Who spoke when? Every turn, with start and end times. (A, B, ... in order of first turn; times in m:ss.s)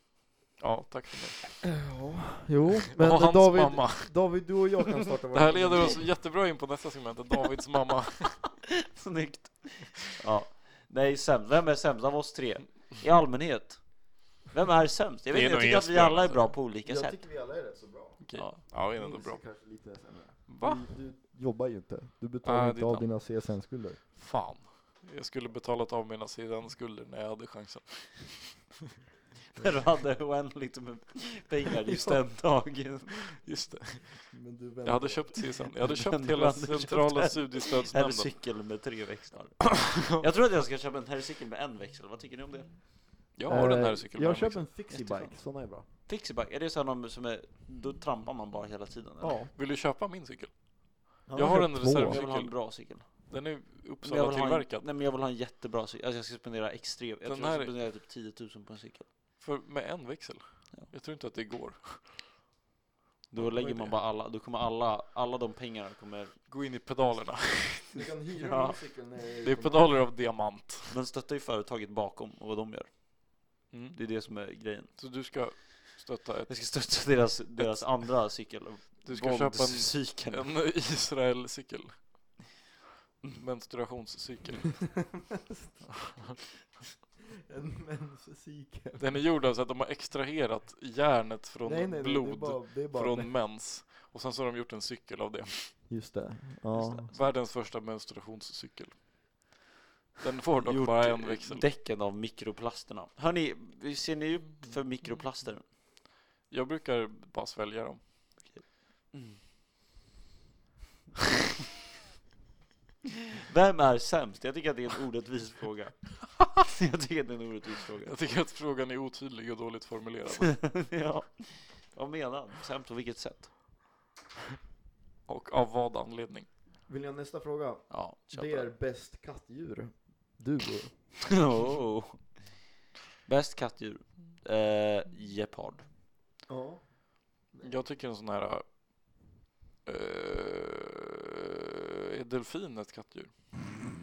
0:00.6-0:01.5 A
0:01.6-0:06.1 B
0:03.0-0:04.1 A
0:05.3-0:08.4 A
0:08.7-0:17.2 C
0:15.3-0:16.5 A
0:16.8-0:24.0 B
0:18.2-0:19.4 A
0:18.3-0:18.6 C
0:20.5-0:20.9 A
0:22.4-0:23.1 A
0:24.2-0:28.6 A
0:29.5-0:33.3 C
0:33.4-0:34.3 A
0:34.3-0:35.6 B
0:34.8-0:38.4 A
0:35.8-0:42.8 C
0:43.3-0:44.6 A
0:43.4-0:45.8 B
0:44.9-0:45.4 C
0:46.0-0:49.4 C
0:49.2-0:49.5 B
0:49.5-0:54.8 A
0:51.3-0:52.2 B
0:51.9-0:53.3 C
0:54.0-0:59.1 C
0:57.2-0:57.7 A
0:59.4-1:02.2 A
1:03.3-1:06.4 C
1:03.4-1:04.0 A
1:06.5-1:08.0 A
1:07.9-1:10.1 B
1:08.4-1:08.8 C
1:09.4-1:11.0 A
1:10.9-1:14.9 C
1:13.7-1:14.0 A
1:15.0-1:18.2 A
1:16.5-1:20.5 C
1:19.0-1:22.4 A
1:23.2-1:25.0 A
1:25.3-1:25.8 B
1:27.5-1:29.2 B
1:29.0-1:35.8 A
1:31.6-1:33.3 B
1:35.9-1:37.1 B
1:36.7-1:37.1 C
1:37.1-1:39.0 A
1:40.2-1:41.6 A
1:40.6-1:45.6 C
1:46.5-1:48.0 A
1:48.4-1:49.4 C
1:53.4-1:58.2 C
1:58.0-2:00.6 A
2:00.6-2:03.5 C
2:05.3-2:06.5 A
2:06.9-2:11.2 B
2:07.9-2:08.7 C
2:11.3-2:12.6 C
2:13.2-2:15.8 C
2:16.5-2:16.9 B
2:17.5-2:17.8 B
2:17.6-2:18.6 A
2:19.8-2:23.3 A